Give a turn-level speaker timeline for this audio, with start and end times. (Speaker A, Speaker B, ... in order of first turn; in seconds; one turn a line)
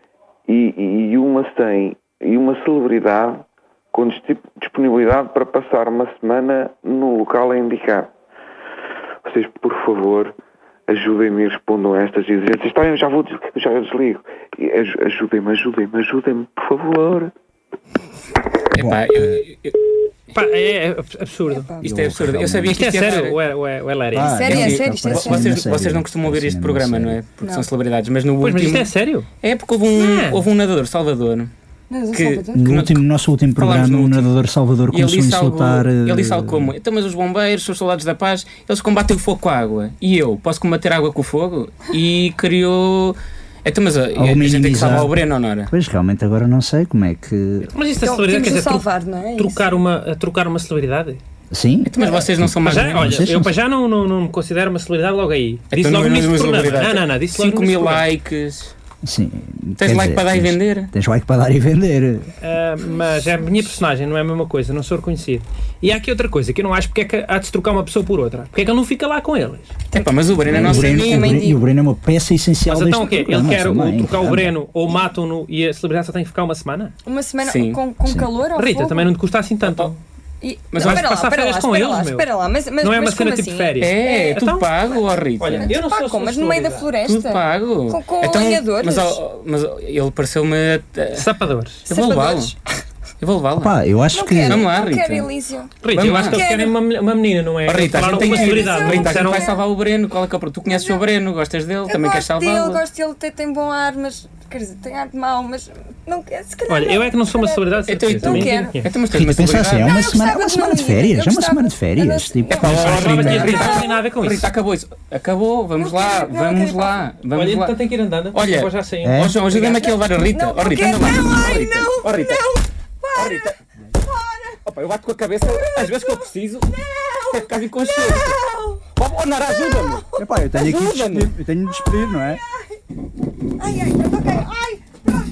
Speaker A: 0.5-8.1
Speaker A: 9.2-10.3
Speaker A: 10.9-17.3
Speaker B: 18.7-19.8
Speaker C: 18.7-19.4
Speaker D: 20.3-21.7
Speaker E: 21.5-21.8
Speaker C: 21.8-22.8
Speaker B: 21.8-23.4
Speaker D: 22.7-24.5
Speaker C: 24.1-27.2
Speaker E: 24.3-25.6
Speaker B: 24.5-28.9
Speaker D: 28.4-29.3
Speaker B: 29.4-31.5
Speaker D: 29.9-30.4
Speaker E: 31.9-32.7
Speaker B: 32.1-33.0
Speaker C: 32.5-36.7
Speaker B: 33.5-34.3
Speaker B: 34.9-45.7
Speaker C: 44.1-45.2
Speaker C: 45.7-47.7
Speaker D: 47.7-51.2
Speaker E: 48.0-49.8
Speaker C: 51.5-53.6
Speaker B: 51.9-53.2
Speaker D: 52.6-58.0
Speaker B: 55.7-58.7
Speaker C: 59.0-62.3
Speaker B: 59.8-60.9
Speaker D: 62.4-69.7
Speaker B: 69.9-71.4
Speaker E: 69.9-71.6
Speaker C: 70.5-74.5
Speaker D: 72.7-76.9
Speaker E: 77.0-79.1
Speaker B: 77.4-77.8
Speaker D: 78.5-80.0
Speaker B: 79.6-79.9
Speaker E: 80.4-84.4
Speaker B: 80.7-81.1
Speaker D: 80.8-82.3
Speaker D: 82.8-84.8
Speaker B: 83.8-85.7
Speaker D: 85.4-86.9
Speaker E: 85.5-89.2
Speaker B: 87.0-91.3
Speaker D: 91.1-91.8
Speaker B: 91.9-92.5
Speaker E: 91.9-92.6
Speaker B: 93.2-93.7
Speaker C: 93.6-94.6
Speaker E: 94.1-96.8
Speaker B: 94.5-95.3
Speaker D: 95.8-99.5
Speaker B: 95.9-96.4
Speaker B: 97.7-102.8
Speaker E: 98.2-99.6
Speaker E: 100.7-101.0
Speaker E: 101.9-108.8
Speaker D: 106.7-109.0
Speaker B: 107.9-110.0
Speaker C: 109.1-113.7
Speaker E: 109.8-114.0
Speaker B: 112.6-117.8
Speaker D: 112.7-114.5
Speaker E: 115.8-117.0
Speaker D: 117.3-119.9
Speaker B: 118.3-122.6
Speaker C: 119.0-119.3
Speaker E: 119.8-123.5
Speaker B: 123.1-123.5
Speaker E: 124.0-124.6
Speaker B: 124.6-126.7
Speaker E: 125.5-126.2
Speaker E: 126.8-128.8
Speaker B: 127.3-128.4
Speaker B: 128.9-130.1
Speaker C: 130.2-132.4
Speaker B: 130.6-131.3
Speaker E: 133.6-134.8